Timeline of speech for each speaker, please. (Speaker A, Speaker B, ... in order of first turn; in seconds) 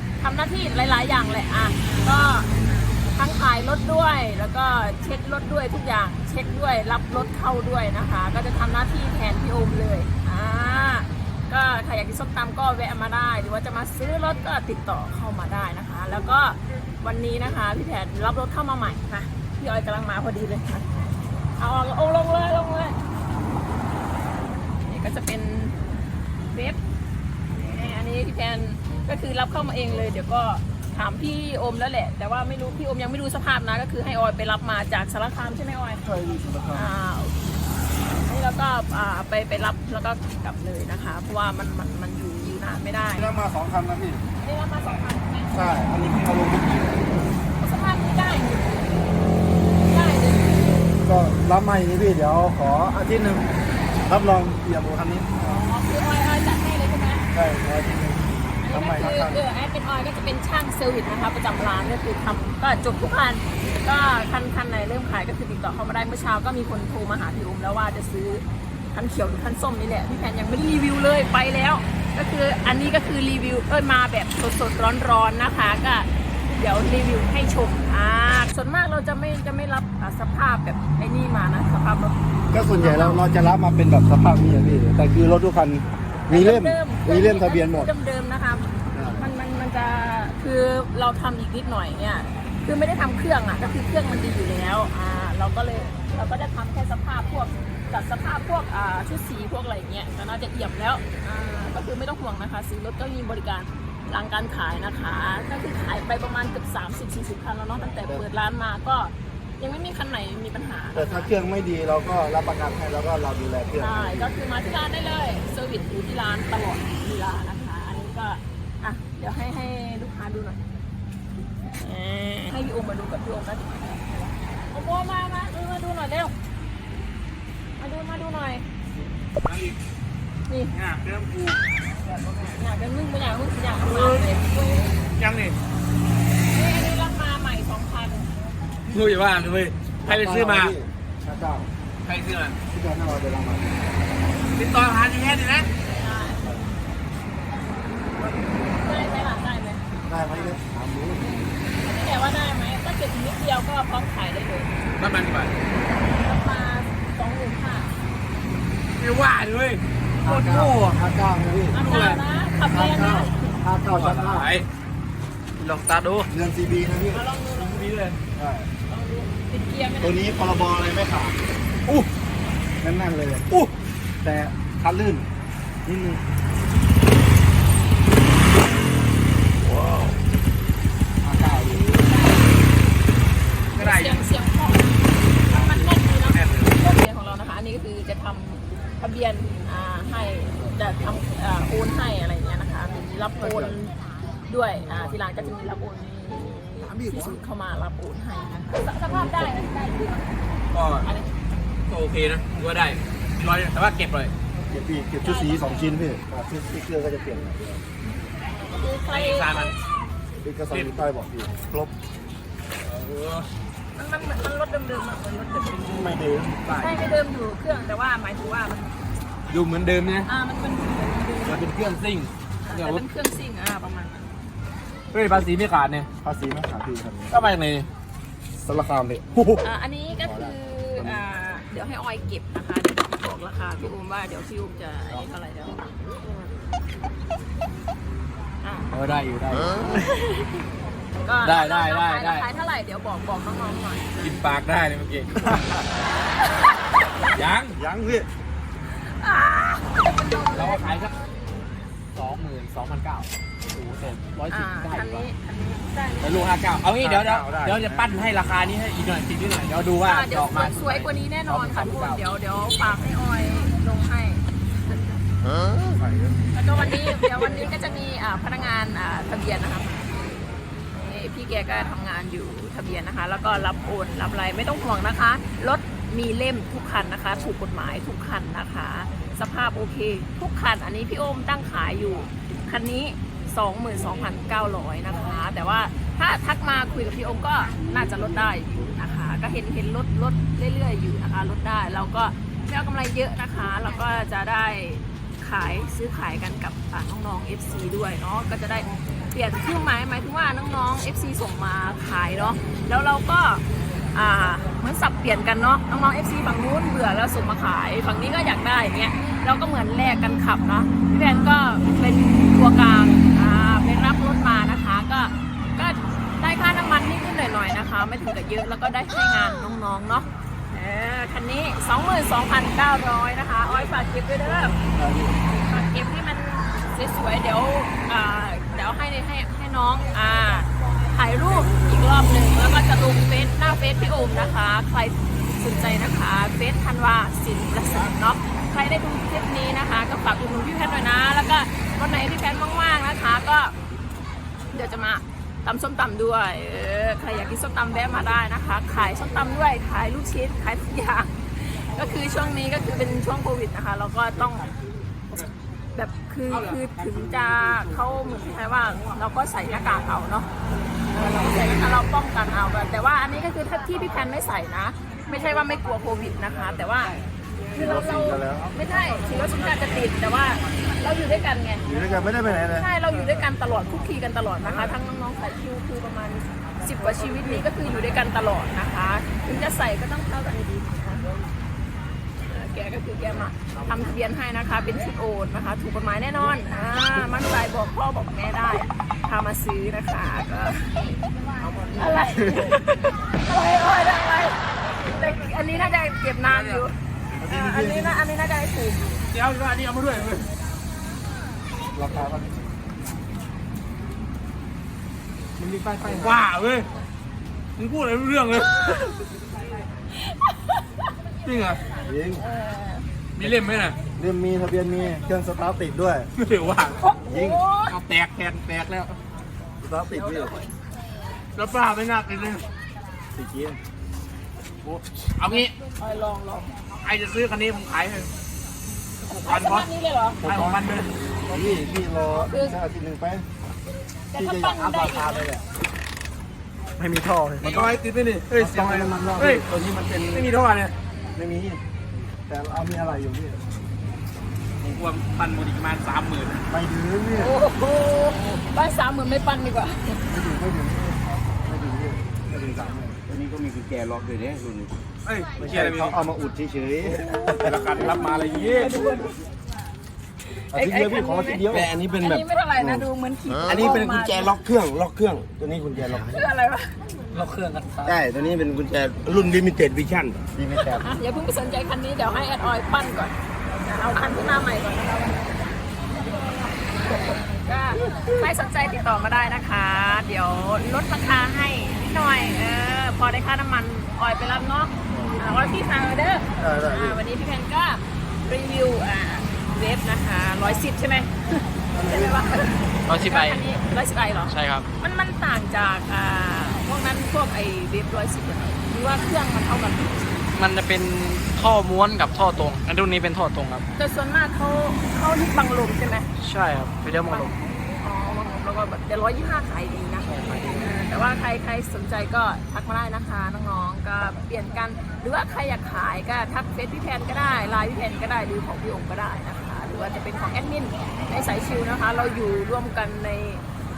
Speaker A: 0.2-2.5, 3.1-20.9, 21.6-23.0, 24.9-25.8, 26.5-26.8, 27.6-36.0, 36.7-37.4, 38.2-43.3, 44.4-45.6, 47.6-49.1, 49.8-50.9, 55.4-57.3, 58.6-83.3, 86.3-111.3, 113.8-120.6, 121.8-124.0, 124.7-126.3, 127.8-128.7, 130.5-130.7, 132.2-135.0, 136.5-138.3, 145.9-146.4, 148.7-149.8, 151.2-154.7, 156.0-158.0, 161.7-163.3, 167.1-168.0, 168.9-170.2, 181.6-182.5, 183.8-184.9, 185.5-193.9, 194.5-200.3, 201.0-201.3, 205.2-206.0, 208.7-209.7, 214.0-216.0, 216.7-219.0, 220.2-221.7, 222.6-224.3, 229.6-235.9, 238.6-238.9, 239.9-240.4, 241.2-244.4, 248.9-250.9, 254.5-256.5, 260.0-264.4, 266.5-270.3, 270.9-303.6, 304.1-324.8, 325.5-343.8, 344.7-354.7, 355.9-360.5, 361.1-367.2, 367.7-371.9, 372.7-381.3, 382.4-391.1, 391.9-399.2, 410.1-410.9, 412.4-413.1, 417.0-418.0, 420.1-420.7, 425.5-426.7, 429.3-430.4, 432.3-432.8, 434.3-435.5, 447.3-450.2, 458.4-459.4, 460.5-464.6, 466.2-467.0, 470.7-475.9, 476.8-500.5, 504.0-506.3, 507.3-523.6
Speaker B: 36.0-36.9, 43.1-44.2, 45.5-47.2, 51.0-53.5, 54.0-55.6, 57.3-59.4, 82.5-87.9, 88.9-89.3, 107.8-108.3, 110.9-114.3, 140.1-141.7, 142.7-143.8, 150.1-151.2, 160.2-161.8, 162.7-164.5, 166.3-167.2, 168.3-168.7, 170.0-171.4, 172.8-173.5, 174.2-175.3, 175.8-176.2, 193.4-193.8, 199.1-199.7, 204.7-207.8, 210.4-211.9, 215.8-216.6, 226.2-227.4, 228.6-229.6, 230.2-231.2, 247.7-248.3, 257.0-258.0, 265.8-266.5, 324.9-325.4, 367.8-368.7, 371.9-372.9, 397.4-398.2, 401.9-402.7, 405.6-406.3, 412.0-412.4, 414.2-416.3, 417.2-417.6, 419.8-420.5, 423.4-423.8, 430.4-430.8, 431.5-433.5, 434.4-435.6, 438.6-439.6, 441.3-441.8, 442.5-443.6, 446.7-447.6, 450.3-453.2, 455.6-457.8, 460.7-461.9, 485.1-485.4, 486.6-487.2, 491.9-492.4
Speaker C: 129.4-129.8, 130.7-131.6, 133.8-134.3, 135.2-135.6, 138.9-140.8, 142.1-142.6, 144.5-145.7, 155.0-155.6, 159.0-161.1, 161.7-162.2, 163.9-164.7, 167.6-168.2, 179.8-180.1, 181.2-181.9, 183.8-184.2, 185.5-186.8, 200.7-201.1, 201.9-204.3, 209.1-209.7, 210.7-211.0, 212.8-213.5, 216.6-217.0, 219.5-220.3, 221.4-223.0, 225.1-226.1, 227.3-227.9, 238.9-240.1, 241.4-242.5, 244.2-245.6, 247.3-247.8, 250.5-251.2, 252.2-255.2, 256.2-262.2, 356.5-356.8, 396.5-396.8, 399.3-400.5, 406.0-406.9, 407.8-409.0, 411.4-411.8, 413.4-414.0, 416.4-417.0, 417.9-419.2, 421.6-422.7, 424.9-425.7, 427.0-428.3, 429.3-429.9, 430.4-431.1, 437.6-439.7, 440.2-440.9, 444.8-446.6, 455.2-456.2, 457.6-459.0
Speaker D: 165.6-166.3, 467.3-468.1, 493.1-493.6, 494.5-494.9, 500.6-503.9, 506.4-507.6, 510.3-510.9
Speaker E: 439.4-440.5, 453.3-454.9, 460.8-463.1, 463.6-466.3, 468.1-471.0